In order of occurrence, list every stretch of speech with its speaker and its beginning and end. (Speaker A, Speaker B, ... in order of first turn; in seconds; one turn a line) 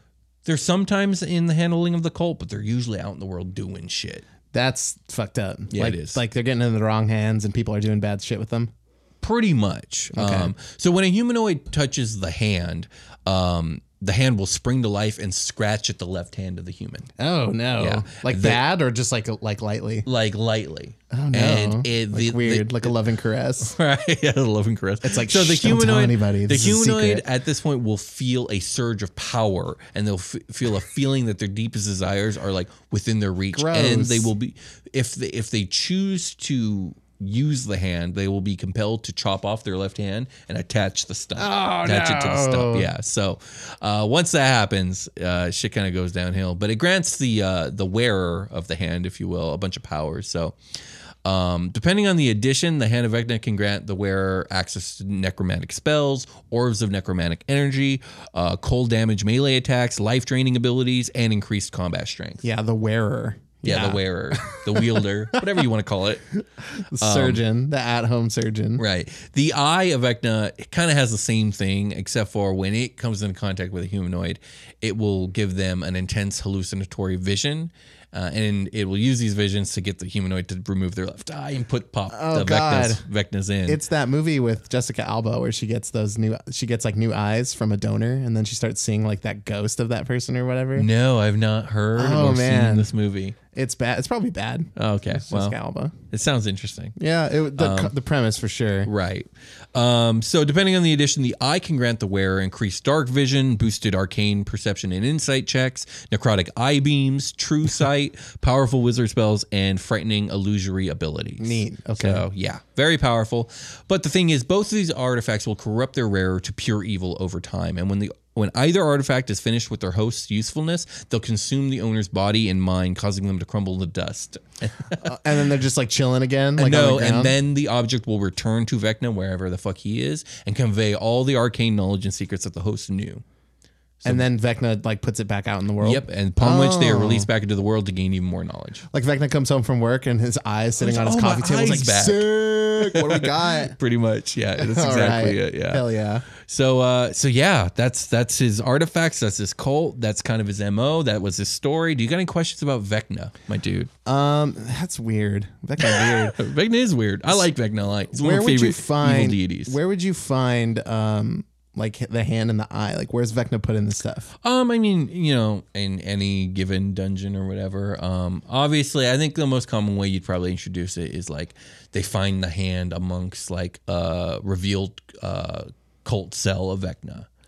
Speaker A: 0.4-4.2
Speaker B: 4.5-8.7
Speaker A: 5.7-6.2
Speaker A: 9.2-17.1
Speaker B: 10.1-10.5
Speaker B: 17.2-20.1
Speaker A: 17.8-18.6
Speaker A: 20.0-22.9
Speaker B: 21.1-23.8
Speaker A: 23.6-50.6
Speaker B: 25.0-27.2
Speaker B: 33.5-34.3
Speaker B: 41.4-42.9
Speaker A: 51.2-62.4
Speaker B: 62.4-65.0
Speaker A: 63.6-66.3
Speaker B: 66.8-68.8
Speaker A: 67.0-67.4
Speaker A: 68.8-83.8
Speaker B: 82.1-83.0
Speaker B: 83.7-90.9
Speaker A: 90.8-93.4
Speaker B: 92.0-92.9
Speaker B: 93.5-95.9
Speaker A: 94.8-95.6
Speaker A: 96.1-97.0
Speaker B: 97.0-98.9
Speaker A: 97.5-97.9
Speaker A: 98.8-125.3
Speaker B: 111.4-112.2
Speaker B: 124.9-127.3
Speaker A: 126.6-133.2
Speaker B: 134.0-137.3
Speaker A: 135.8-138.8
Speaker B: 138.9-143.7
Speaker A: 140.8-145.8
Speaker B: 144.6-146.2
Speaker A: 146.4-153.9
Speaker B: 154.1-156.4
Speaker A: 155.8-159.8
Speaker B: 158.1-164.3
Speaker A: 164.4-177.3